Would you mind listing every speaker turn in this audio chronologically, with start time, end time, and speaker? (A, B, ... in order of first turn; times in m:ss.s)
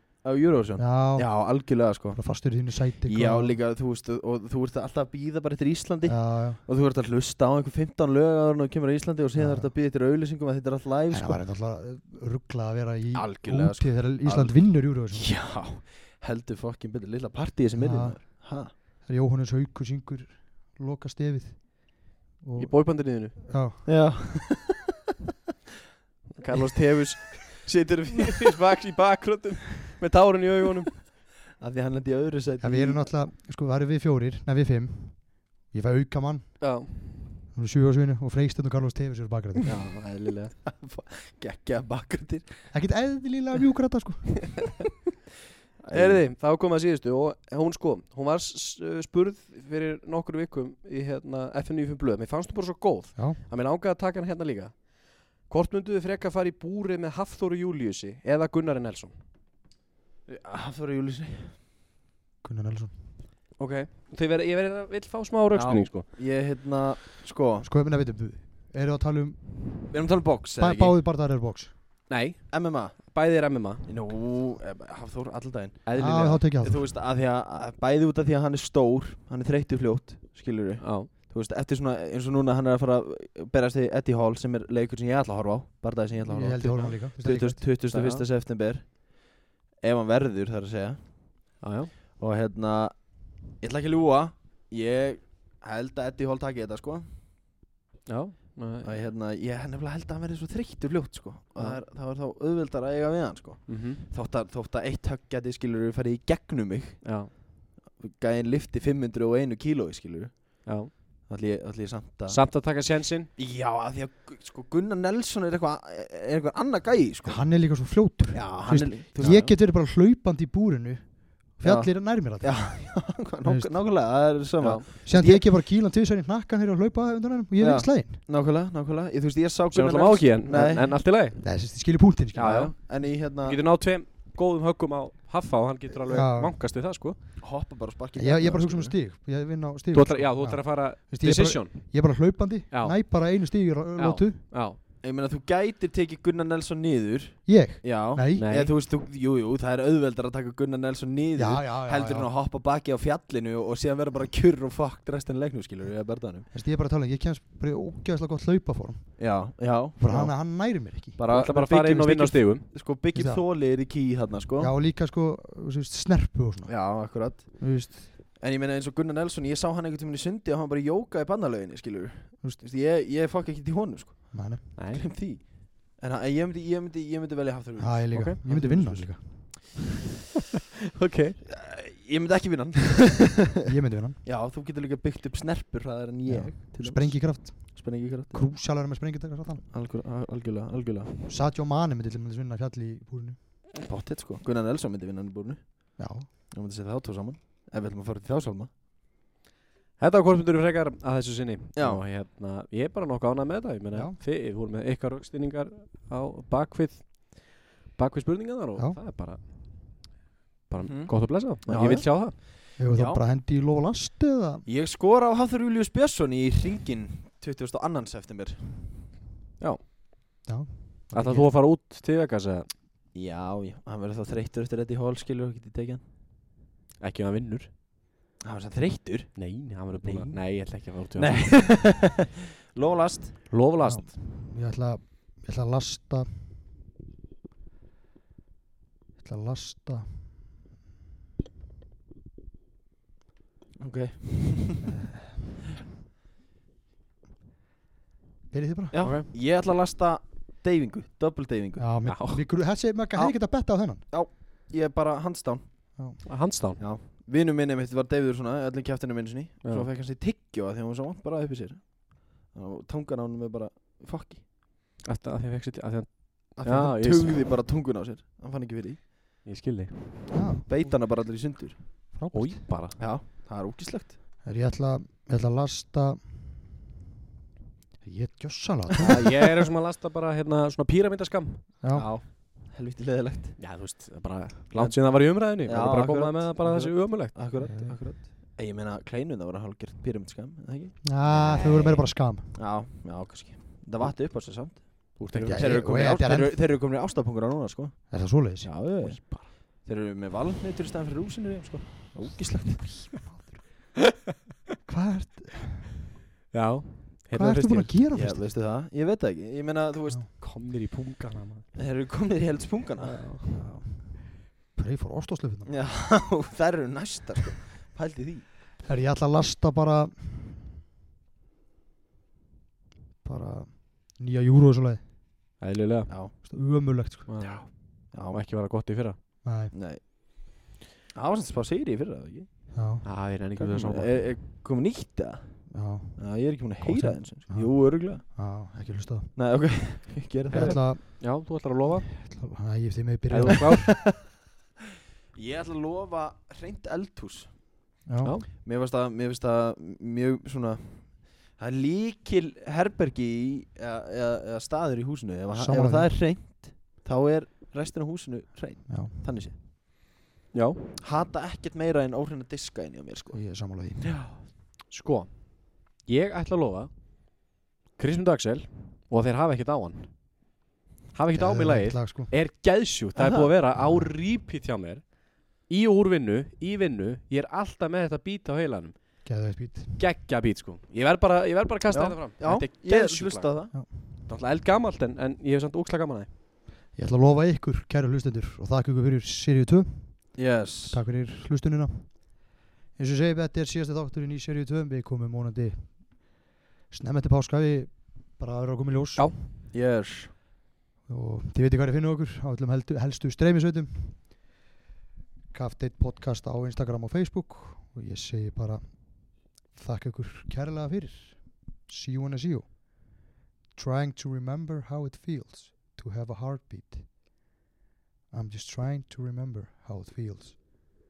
0:00.2-0:02.5 A
0:00.8-0:03.6 B
0:03.0-0:11.4 A
0:06.0-0:06.6 B
0:09.4-0:09.7 B
0:11.1-0:15.4 B
0:13.1-0:18.7 A
0:17.8-0:24.2 B
0:22.6-0:23.4 C
0:23.8-0:24.8 A
0:26.4-0:31.0 C
0:31.6-0:33.1 A
0:32.6-0:36.7 B
0:36.6-0:37.3 C
0:37.5-0:39.8 B
0:39.6-0:40.5 C
0:40.5-0:42.7 A
0:42.7-0:44.8 B
0:45.8-0:46.2 A
0:45.9-0:59.2 C
1:00.3-1:01.6 A
1:02.4-1:02.9 B
1:03.6-1:06.1 C
1:05.5-1:07.7 A
1:07.6-1:10.0 B
1:09.9-1:11.0 A
1:10.6-1:11.7 B
1:12.1-1:13.9 C
1:12.5-1:13.1 A
1:13.8-1:31.4 A
1:15.9-1:16.4 C
1:16.0-1:16.9 B
1:20.8-1:21.1 C
1:26.3-1:27.6 B
1:27.9-1:28.2 C
1:31.6-1:31.9 C
1:32.2-1:37.1 A
1:38.1-1:39.0 C
1:38.8-1:47.4 A
1:43.7-1:44.0 C
1:47.0-1:47.3 C
1:48.0-1:52.4 A
1:50.7-1:50.9 C
1:52.3-1:53.3 C
1:53.4-1:57.4 A
1:57.2-2:02.7 B
1:58.3-1:59.5 A
2:01.6-2:05.4 A
2:03.4-2:03.7 B
2:05.1-2:08.2 B
2:07.6-2:11.0 A
2:09.7-2:11.5 C
2:11.4-2:12.6 B
2:12.4-2:17.2 C
2:12.4-2:13.6 A
2:16.1-2:16.5 B
2:17.4-2:19.0 A
2:18.2-2:24.4 B
2:19.9-2:23.0 C
2:24.0-2:24.8 C
2:25.0-2:36.5 A
2:27.5-2:28.5 B
2:28.4-2:28.7 C
2:31.4-2:32.3 B
2:36.5-2:39.4 B
2:39.2-2:44.7 A
2:40.0-2:41.2 B
2:41.3-2:42.7 C
2:43.1-2:43.4 B
2:44.6-2:48.1 B
2:46.7-2:59.4 A
2:54.3-2:54.7 B
2:54.8-2:55.1 C
2:57.8-2:59.6 B
2:58.1-2:58.4 C
3:01.0-3:01.4 C
3:01.5-3:03.6 A
3:03.6-3:04.2 B
3:04.2-3:08.5 A
3:06.3-3:09.6 B
3:09.7-3:11.1 A
3:11.3-3:13.4 B
3:13.8-3:18.7 A
3:16.0-3:16.3 B
3:20.0-3:30.1 C
3:21.8-3:22.0 A
3:23.9-3:24.2 B
3:30.7-3:32.4 C
3:30.8-3:33.2 A
3:32.8-3:34.6 B
3:34.7-3:39.0 A
3:39.6-3:39.9 C
3:40.5-3:41.5 B
3:41.1-3:42.7 C
3:43.1-3:46.0 A
3:47.0-3:47.7 C
3:48.4-3:53.6 A
3:49.4-3:51.6 C
3:53.5-3:54.1 C
3:53.8-3:56.5 B
3:59.2-4:00.4 B
4:03.8-4:05.0 A
4:08.5-4:09.1 B
4:08.9-4:12.1 A
4:09.0-4:09.3 C
4:11.8-4:14.0 B
4:12.0-4:12.4 C
4:13.2-4:24.4 A
4:16.3-4:16.8 C
4:25.0-4:27.4 C
4:26.6-4:29.1 A
4:29.4-4:30.3 C
4:30.3-4:30.7 B
4:30.7-4:31.8 A
4:32.1-4:32.8 B
4:32.3-4:33.0 C
4:33.0-4:34.2 A
4:34.4-4:36.4 B
4:38.0-4:39.2 B
4:39.0-4:41.7 C
4:41.8-4:42.1 B
4:41.9-4:43.6 A
4:43.6-4:47.5 C
4:44.7-4:51.1 A
4:47.6-4:48.0 B
4:51.0-4:52.6 B
4:51.3-4:52.0 C
4:52.5-5:03.1 A
4:55.2-4:55.9 C
4:55.4-4:56.6 B
4:58.1-4:58.8 B
4:59.0-4:59.5 C
5:03.1-5:03.6 B
5:04.9-5:05.9 B
5:06.5-5:08.0 C
5:07.3-5:08.5 B
5:08.1-5:10.3 A
5:10.4-5:11.7 C
5:11.8-5:13.2 A
5:13.0-5:13.6 C
5:13.5-5:15.7 B
5:15.7-5:18.5 A
5:18.8-5:20.6 B
5:23.2-5:25.0 B
5:25.6-5:26.5 C
5:26.1-5:26.3 A
5:26.4-5:27.3 B
5:27.3-5:29.2 C
5:27.4-5:28.4 A
5:29.4-5:29.7 B
5:29.7-5:30.0 A
5:31.1-5:32.5 A
5:32.8-5:33.1 B
5:33.0-5:34.2 C
5:33.6-5:38.2 A
5:35.7-5:39.4 B
5:39.4-5:40.9 A
5:40.5-5:41.6 B
5:40.6-5:42.1 C
5:42.1-5:44.0 B
5:43.3-5:44.0 C
5:43.9-5:44.1 A
5:45.4-5:47.6 A
5:48.1-5:48.4 B
5:48.2-5:48.5 C
5:48.5-5:59.6 A
5:55.6-5:56.2 B
5:58.9-5:59.1 B
6:00.5-6:00.9 C
6:01.0-6:04.4 A
6:03.3-6:04.1 B
6:04.9-6:06.9 C
6:08.0-6:10.2 C
6:11.1-6:19.2 C
6:11.3-6:12.3 B
6:13.2-6:13.5 A
6:13.8-6:14.1 B
6:19.2-6:20.0 B
6:20.0-6:26.3 C
6:21.9-6:23.7 A
6:27.0-6:39.3 B
6:30.4-6:31.0 A
6:39.7-6:40.3 A
6:41.1-6:44.4 B
6:45.5-6:57.2 B
6:58.3-7:00.6 B